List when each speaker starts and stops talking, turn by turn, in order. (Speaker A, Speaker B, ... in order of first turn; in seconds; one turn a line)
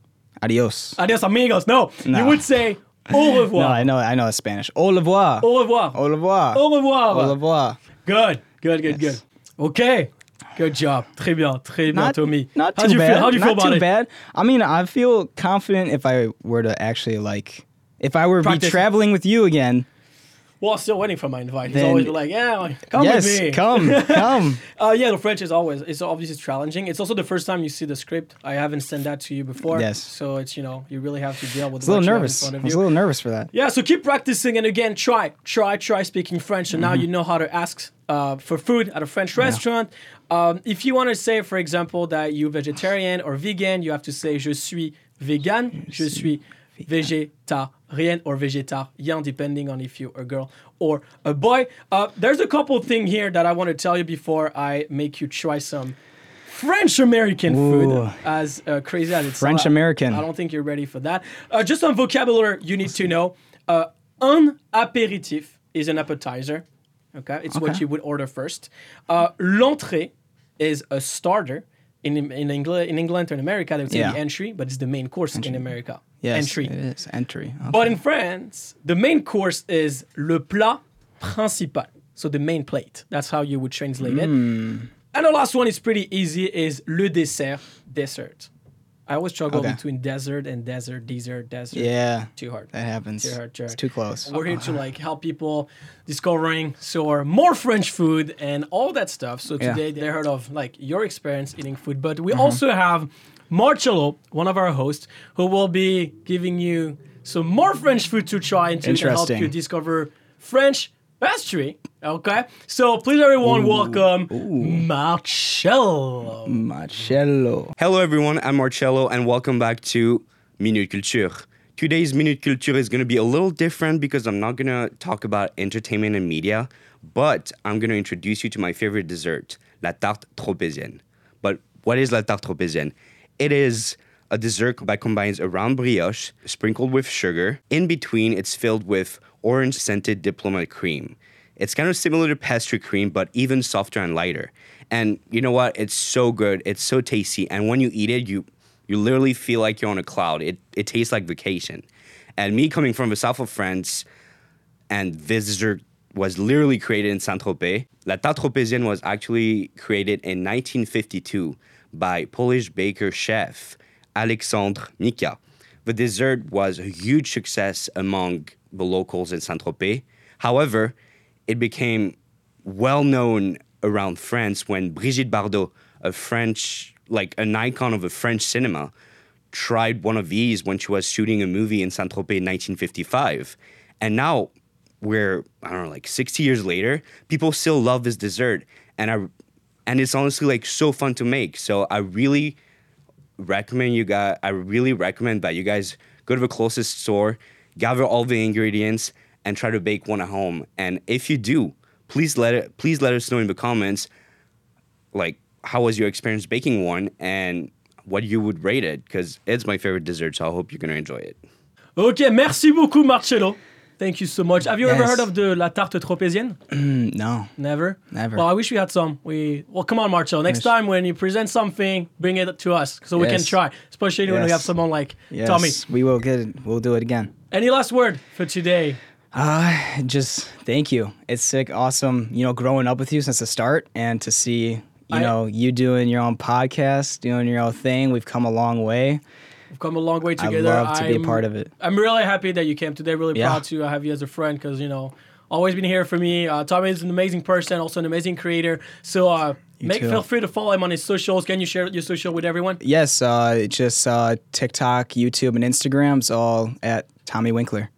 Speaker A: 0.4-1.0
Speaker B: 1.0-3.9
Speaker A: 2.1-2.6
Speaker A: 3.1-7.8
Speaker B: 5.4-6.0
Speaker B: 6.5-7.4
Speaker B: 8.0-13.9
Speaker A: 11.9-19.9
Speaker B: 18.4-18.8
Speaker B: 20.6-32.9
Speaker A: 21.7-22.2
Speaker A: 22.9-24.6
Speaker A: 29.6-30.1
Speaker A: 31.8-33.5
Speaker B: 33.5-76.7
Speaker A: 36.8-37.0
Speaker A: 45.8-46.2
Speaker A: 57.5-58.2
Speaker A: 59.4-60.2
Speaker A: 67.5-67.8
Speaker A: 73.9-74.2
Speaker A: 75.3-75.7
Speaker A: 76.2-78.0
Speaker B: 77.7-84.4
Speaker A: 84.0-84.9
Speaker B: 85.1-88.5
Speaker B: 89.1-116.7
Speaker A: 89.5-89.8
Speaker A: 91.7-94.8
Speaker A: 102.3-102.6
Speaker A: 108.8-109.5
Speaker A: 113.4-114.9
Speaker A: 116.5-117.8
Speaker C: 117.8-151.8
Speaker C: 152.4-154.1
Speaker C: 154.9-170.9
Speaker C: 171.5-178.9
Speaker C: 179.5-184.5
Speaker C: 185.0-189.3
Speaker C: 189.9-192.6
Speaker C: 193.4-204.1
Speaker C: 205.1-211.4
Speaker B: 212.0-216.6
Speaker A: 214.8-215.3
Speaker A: 216.7-217.5
Speaker B: 217.6-225.8
Speaker A: 218.1-218.5
Speaker A: 223.2-223.6
Speaker A: 224.3-224.7
Speaker A: 225.3-227.3
Speaker B: 227.5-229.0
Speaker A: 229.3-239.2
Speaker B: 239.7-252.8
Speaker A: 240.4-241.7
Speaker A: 243.3-243.6
Speaker A: 249.8-250.2
Speaker A: 252.8-257.9